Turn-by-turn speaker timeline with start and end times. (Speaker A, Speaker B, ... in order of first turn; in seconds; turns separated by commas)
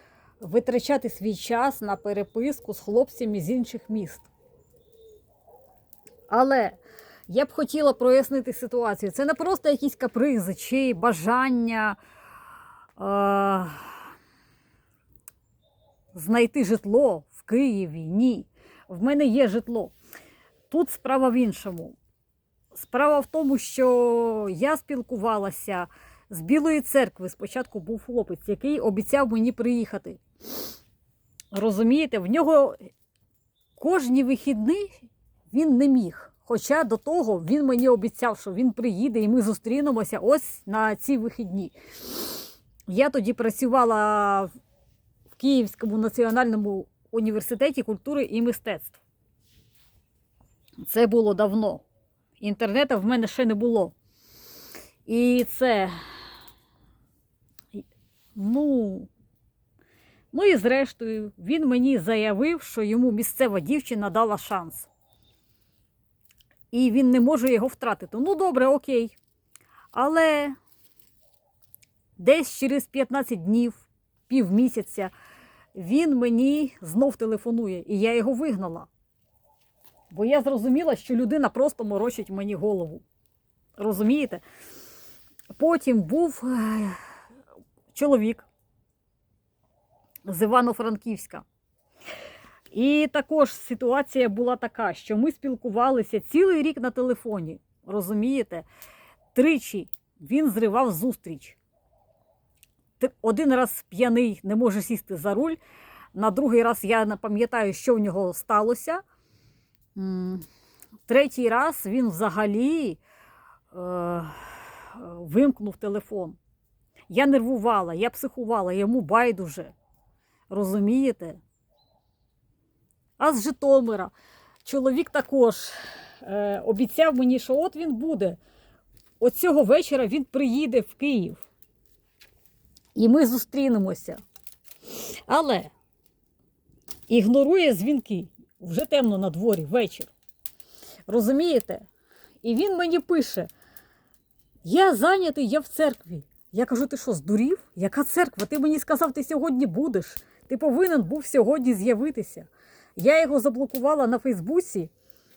Speaker A: 0.4-4.3, Speaker A: 6.3-12.0, Speaker A: 13.0-14.0, Speaker A: 16.1-19.9, Speaker A: 20.7-22.0, Speaker A: 22.7-30.2, Speaker A: 31.5-32.9, Speaker A: 33.8-34.9, Speaker A: 35.5-41.7, Speaker A: 42.9-44.5, Speaker A: 45.4-49.0, Speaker A: 50.8-51.8, Speaker A: 52.4-53.9, Speaker A: 55.1-56.0, Speaker A: 58.4-59.1, Speaker A: 60.3-64.9, Speaker A: 66.7-69.2, Speaker A: 69.9-70.6, Speaker A: 72.2-75.1, Speaker A: 75.7-78.9, Speaker A: 80.1-83.0, Speaker A: 83.8-84.4, Speaker A: 85.6-87.0, Speaker A: 87.9-88.5, Speaker A: 90.2-91.5, Speaker A: 92.7-98.7, Speaker A: 99.3-101.6, Speaker A: 103.0-105.6, Speaker A: 106.1-109.0, Speaker A: 110.0-110.5, Speaker A: 111.1-113.0, Speaker A: 113.7-116.4, Speaker A: 117.1-119.7, Speaker A: 120.5-121.4, Speaker A: 123.2-124.1, Speaker A: 124.7-128.4, Speaker A: 129.2-131.4, Speaker A: 132.9-134.2, Speaker A: 135.3-135.7, Speaker A: 137.1-140.1, Speaker A: 141.1-141.8, Speaker A: 142.4-143.5, Speaker A: 144.7-154.9